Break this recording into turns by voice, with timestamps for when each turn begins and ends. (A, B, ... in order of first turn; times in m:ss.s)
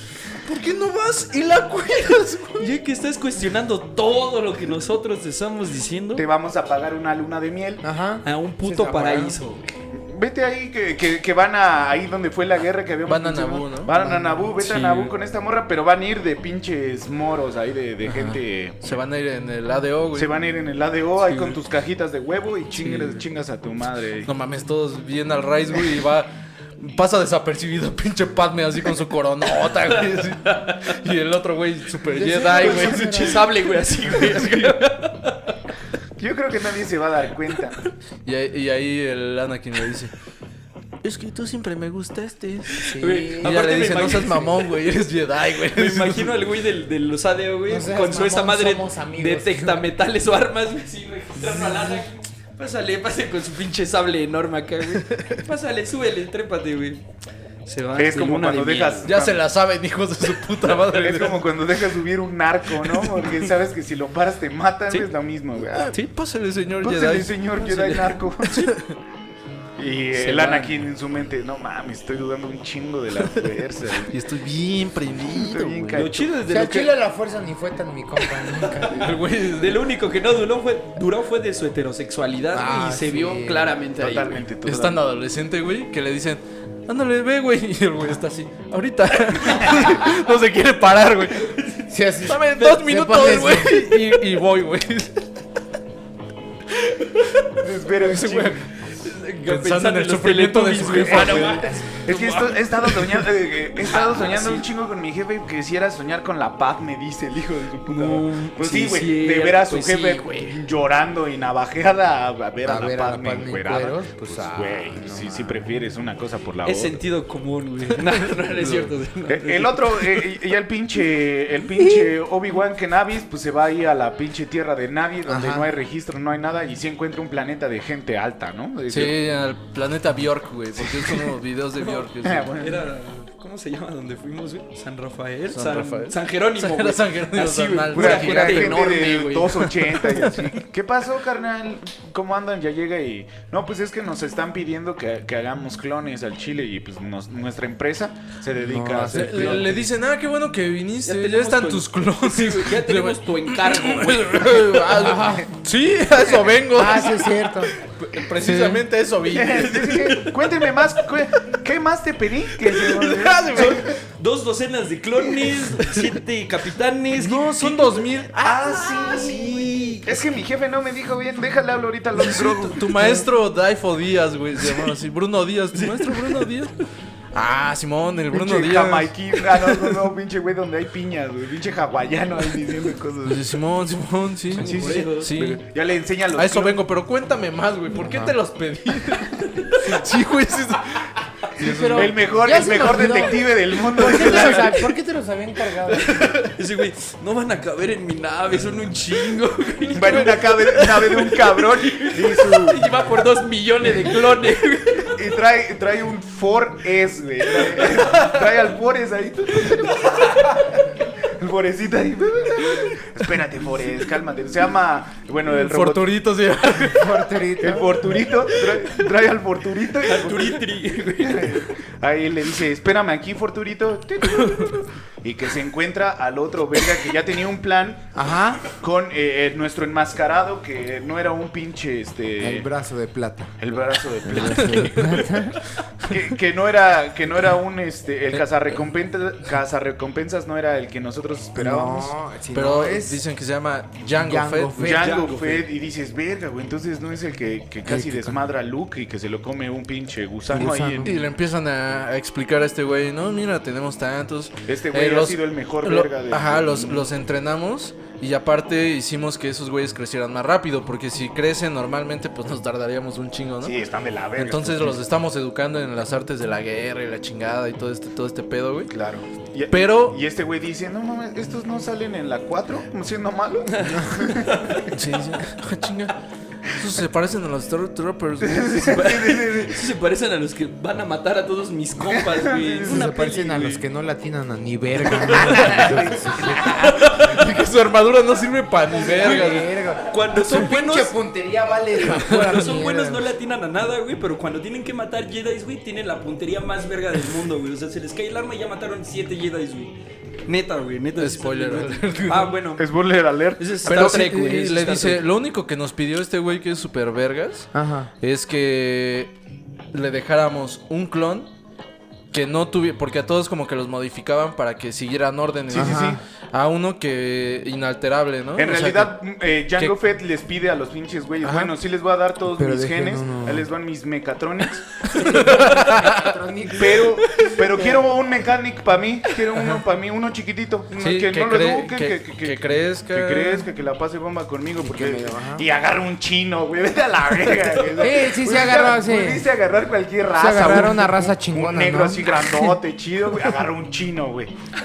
0:00.4-0:02.7 A
0:02.6-0:06.3 B
0:06.2-0:07.8 C
0:07.8-0:09.4 D
0:08.2-0:09.7 B
0:09.9-0:18.8 C
0:13.1-0:13.9 A
0:13.9-0:14.4 D
0:14.6-0:15.1 B
0:18.0-0:20.3 A
0:20.2-0:24.3 C
0:21.2-0:21.6 B
0:22.8-0:23.2 A
0:24.2-0:33.4 A
0:29.9-0:30.9 B
0:32.1-0:33.5 D
0:32.6-0:35.5 B
0:34.2-0:34.8 A
0:36.2-0:37.8 C
0:38.2-0:40.1 A
0:41.0-0:42.9 A
0:42.8-0:44.7 B
0:42.9-0:43.9 D
0:43.4-0:46.3 A
0:45.7-0:57.0 B
0:47.7-0:49.9 D
0:51.5-0:52.0 D
0:54.9-0:55.4 A
0:57.7-0:59.2 B
0:58.0-0:59.4 C
0:59.0-1:01.4 A
1:00.8-1:06.0 C
1:05.7-1:07.4 A
1:06.8-1:08.7 C
1:07.6-1:08.2 B
1:08.5-1:09.0 A
1:09.8-1:14.2 C
1:10.2-1:10.6 B
1:10.3-1:10.6 A
1:14.1-1:16.1 A
1:15.2-1:16.3 C
1:15.9-1:17.0 B
1:16.5-1:19.1 D
1:18.4-1:19.0 B
1:18.9-1:19.8 A
1:19.6-1:24.4 B
1:22.5-1:23.8 D
1:24.0-1:25.0 C
1:24.6-1:31.6 A
1:29.4-1:30.1 B
1:31.4-1:31.8 B
1:31.9-1:33.9 D
1:32.2-1:35.2 A
1:37.6-1:38.6 C
1:38.0-1:38.6 A
1:39.0-1:44.7 B
1:39.4-1:41.6 A
1:41.0-1:57.0 C
1:47.9-1:50.6 B
1:52.6-1:55.7 D
1:56.6-2:00.3 B
1:58.1-1:58.9 A
1:59.3-2:09.2 C
2:01.8-2:02.1 D
2:05.3-2:05.7 D
2:08.9-2:12.5 A
2:10.8-2:11.3 C
2:11.8-2:19.5 B
2:12.2-2:12.8 C
2:15.5-2:20.5 A
2:17.9-2:29.8 C
2:28.6-2:29.8 D
2:29.1-2:40.1 A
2:31.0-2:34.9 B
2:34.9-2:35.5 D
2:36.6-2:37.7 D
2:38.4-2:38.8 D
2:39.3-2:43.9 C
2:39.9-2:40.3 B
2:42.7-2:50.1 B
2:43.0-2:43.9 A
2:47.1-2:50.0 A
2:48.4-2:53.3 C
2:52.2-2:56.7 A
2:55.7-2:56.5 B
2:57.3-2:59.1 A
2:58.3-3:03.5 C
3:03.2-3:05.6 A
3:04.5-3:05.3 B
3:04.6-3:06.8 C
3:06.4-3:12.2 A
3:07.9-3:08.3 D
3:09.3-3:09.9 B
3:11.6-3:16.2 D
3:11.9-3:14.9 C
3:14.0-3:14.9 B
3:15.9-3:25.2 B
3:19.9-3:22.8 C
3:25.1-3:36.1 C
3:27.6-3:28.1 B
3:35.5-3:37.4 A
3:36.8-3:38.2 D
3:37.6-3:52.7 C
3:40.0-3:41.6 B
3:48.2-3:48.7 D
3:52.4-3:53.5 D
3:53.6-4:02.1 C
3:54.2-3:55.6 D
3:54.4-3:55.2 A
4:01.6-4:03.2 D
4:02.5-4:05.6 A
4:04.2-4:05.3 D
4:04.8-4:11.2 C
4:07.9-4:08.4 D
4:10.5-4:11.2 D
4:11.0-4:23.8 A
4:14.7-4:17.1 C
4:23.6-4:25.0 C
4:24.4-4:28.9 A
4:28.9-4:34.5 C
4:29.7-4:30.2 A
4:33.7-4:34.9 B
4:33.8-4:34.3 D
4:34.9-4:36.2 A
4:36.7-4:39.0 A
4:38.4-4:39.8 C
4:38.9-4:43.8 B
4:42.3-4:43.1 C
4:42.8-4:47.0 D
4:45.2-4:46.0 B
4:45.6-4:45.9 A
4:45.6-4:46.9 C
4:46.6-4:49.8 A
4:46.8-4:47.3 B
4:48.9-4:53.3 D
4:49.2-4:51.2 B
4:52.0-5:00.0 B
5:00.5-5:02.9 B
5:01.2-5:02.6 A
5:02.8-5:04.2 C
5:03.6-5:05.3 B
5:03.9-5:07.7 A
5:07.7-5:08.1 D
5:08.2-5:09.3 A
5:09.9-5:11.5 A
5:12.3-5:19.2 A
5:15.7-5:16.2 C
5:15.7-5:16.2 D
5:18.6-5:25.3 C
5:21.4-5:21.8 D
5:22.6-5:23.7 D
5:25.1-5:27.2 D
5:25.1-5:26.3 A
5:26.8-5:44.5 C
5:29.6-5:29.8 A
5:31.0-5:33.7 A
5:34.8-5:35.7 D
5:38.0-5:39.5 D
5:40.3-5:42.8 D